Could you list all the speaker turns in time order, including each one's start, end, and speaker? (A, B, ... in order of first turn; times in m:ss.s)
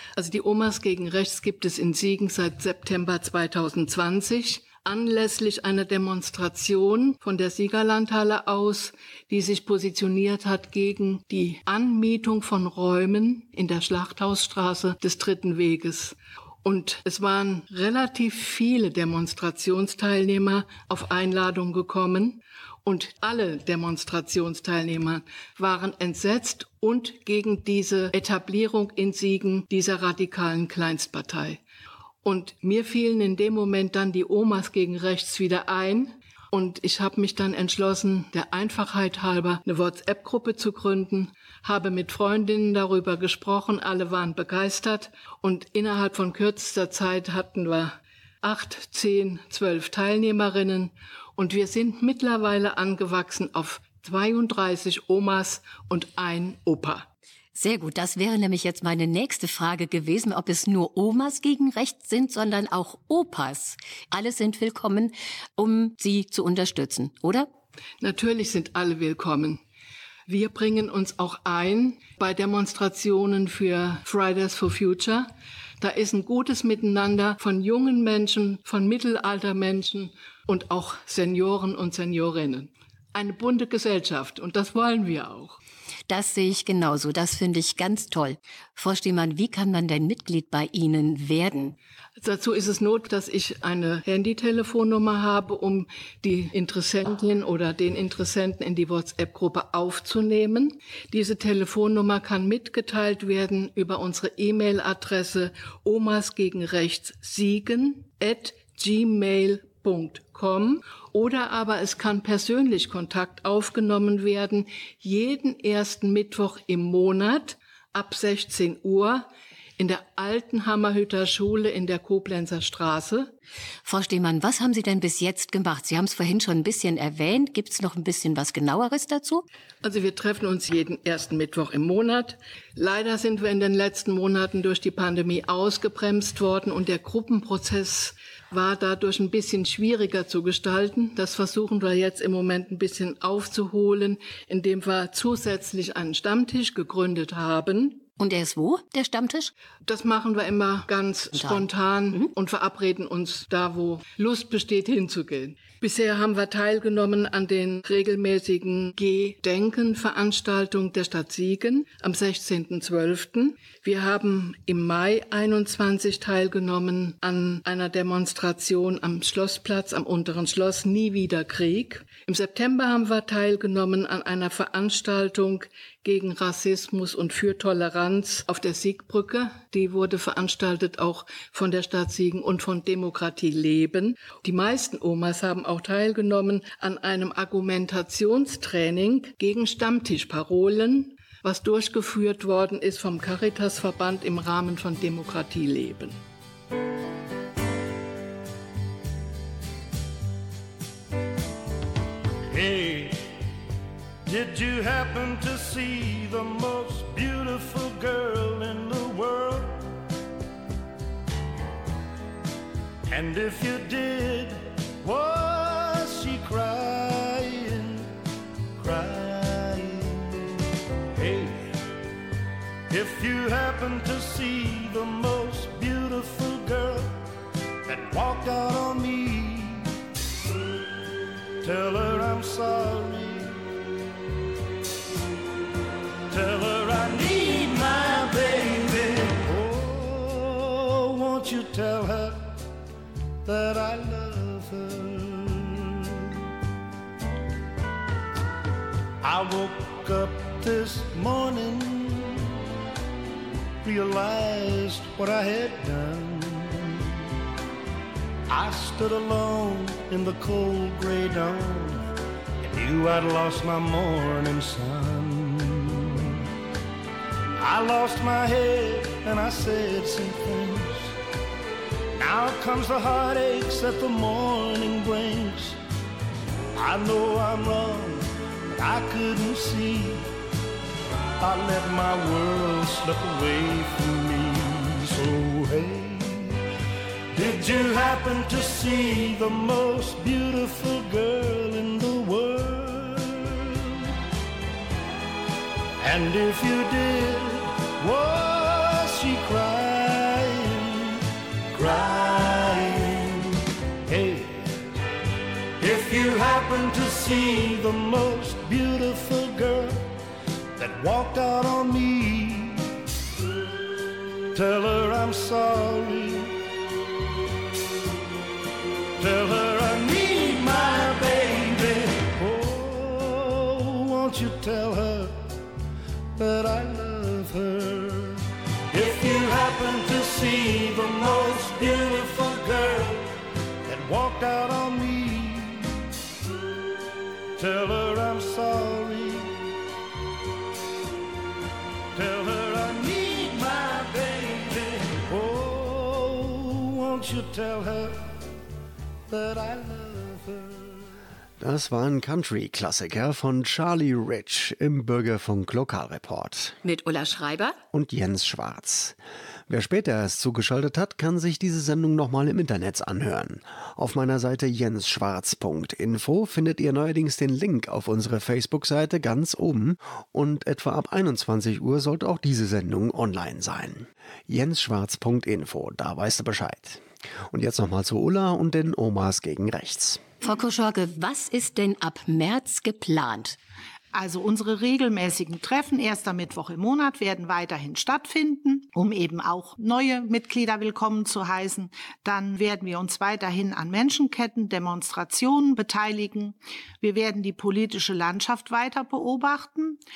0:00.2-0:31.6 A
0:32.2-0:57.1 A
0:57.5-1:07.5 B
1:08.0-1:09.6 A
1:10.3-1:25.6 A
1:26.1-1:31.8 B
1:32.2-2:03.3 A
2:03.8-2:09.4 B
2:09.8-2:28.0 A
2:28.2-2:29.5 B
2:29.8-3:16.2 A
2:31.3-2:32.3 B
3:22.5-3:23.3 C
3:24.2-3:29.9 C
3:33.1-3:38.1 C
3:38.8-3:41.8 C
3:42.9-3:47.2 C
3:47.8-3:49.9 C
3:51.6-3:53.6 C
3:56.3-4:02.6 C
4:03.4-4:06.3 C
4:09.2-4:12.6 C
4:13.8-4:17.2 C
4:18.5-4:26.3 C
4:27.6-4:31.2 C
4:32.1-4:35.8 C
4:36.8-4:40.3 C
4:41.4-4:46.6 C
4:47.3-4:53.9 C
4:56.0-5:04.8 C
5:05.8-5:10.2 C
5:10.8-5:13.0 C
5:14.5-5:16.6 C
5:19.2-5:25.5 C
5:26.3-5:33.3 C
5:33.8-5:36.1 C
5:37.6-5:39.6 C
5:42.1-5:48.2 C
5:49.3-5:51.0 C
5:51.6-5:56.8 D
5:56.8-5:57.8 B
5:57.9-6:20.2 D
6:20.4-6:23.6 B
6:24.1-6:40.0 E